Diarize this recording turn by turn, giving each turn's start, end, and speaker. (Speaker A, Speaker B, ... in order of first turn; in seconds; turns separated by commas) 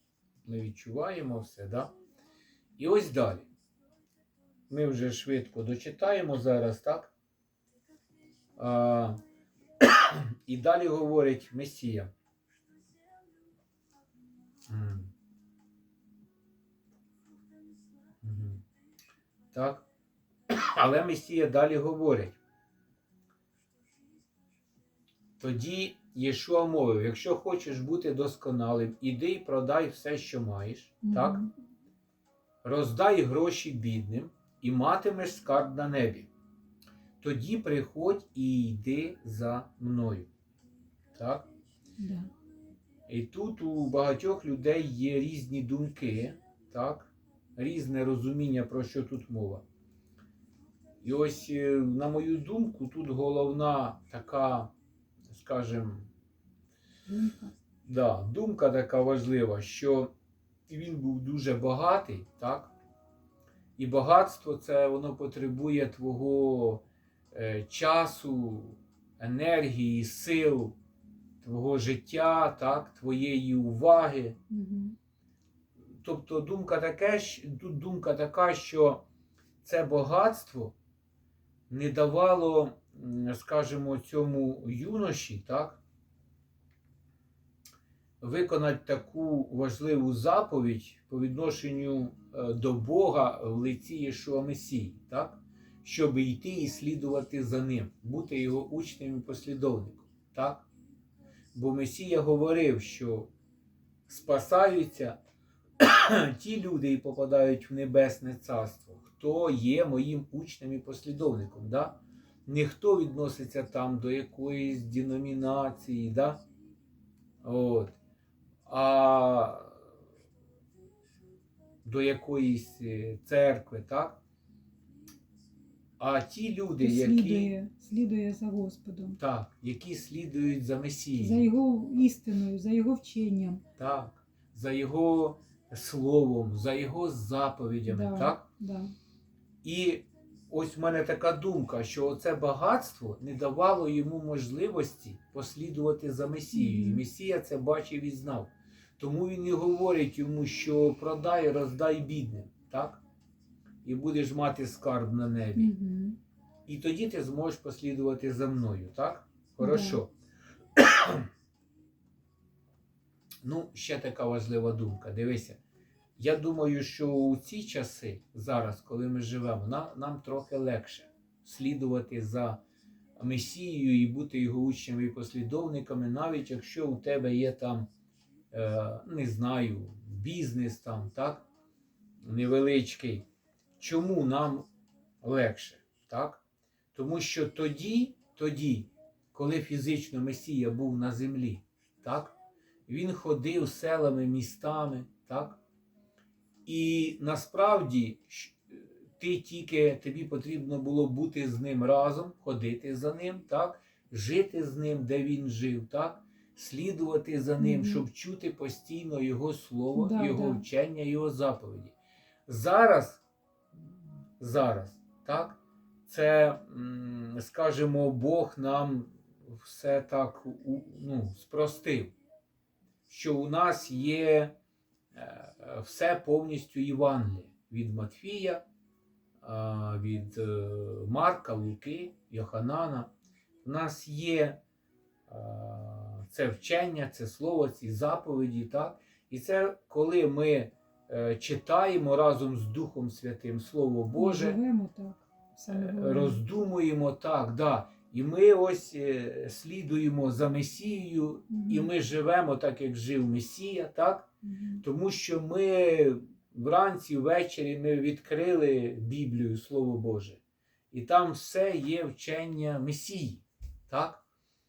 Speaker A: 0.4-1.9, Speaker A: 2.8-3.5, Speaker A: 4.7-7.1, Speaker A: 8.6-9.2, Speaker A: 9.8-12.1, Speaker A: 14.7-15.1, Speaker A: 18.2-18.6, Speaker A: 19.5-19.9, Speaker A: 20.5-22.4, Speaker A: 25.4-31.4, Speaker B: 31.0-31.5, Speaker A: 32.6-36.3, Speaker A: 37.2-40.3, Speaker A: 41.1-41.5, Speaker B: 42.0-42.3, Speaker A: 43.1-49.6, Speaker A: 51.0-54.7, Speaker A: 55.3-56.1, Speaker B: 57.0-57.5, Speaker A: 57.9-60.1, Speaker A: 60.7-62.7, Speaker A: 63.8-70.8, Speaker A: 71.4-74.4, Speaker B: 74.5-75.0, Speaker A: 76.0-79.0, Speaker A: 79.6-80.7, Speaker A: 81.7-85.8, Speaker A: 88.2-100.7, Speaker A: 101.5-103.3, Speaker A: 104.1-105.2, Speaker A: 105.8-116.4, Speaker A: 117.4-118.0, Speaker A: 118.7-119.8, Speaker A: 121.8-124.2, Speaker A: 126.0-127.5, Speaker B: 126.8-129.2, Speaker A: 129.2-131.5, Speaker B: 131.2-133.6, Speaker A: 133.8-138.4, Speaker B: 137.9-138.9, Speaker A: 139.6-153.0, Speaker B: 146.5-147.0, Speaker A: 153.8-155.7, Speaker B: 155.6-156.2, Speaker A: 156.7-160.1, Speaker B: 159.6-160.0, Speaker A: 160.8-161.3, Speaker A: 163.4-165.6, Speaker A: 166.2-172.6, Speaker A: 173.2-177.9, Speaker A: 178.5-181.5, Speaker A: 182.2-183.2, Speaker A: 183.8-184.7, Speaker A: 185.2-186.4, Speaker A: 186.9-192.3, Speaker A: 192.9-195.6, Speaker A: 196.7-211.9, Speaker B: 207.6-208.0, Speaker B: 209.9-210.6, Speaker A: 212.5-213.2, Speaker A: 214.4-222.1, Speaker A: 223.1-224.5, Speaker A: 225.1-228.6, Speaker A: 229.4-233.1, Speaker A: 233.6-234.6, Speaker A: 235.3-244.6, Speaker B: 244.1-246.4, Speaker A: 245.7-254.3, Speaker B: 251.5-251.9, Speaker B: 254.4-254.8, Speaker A: 254.8-260.4, Speaker A: 260.9-264.2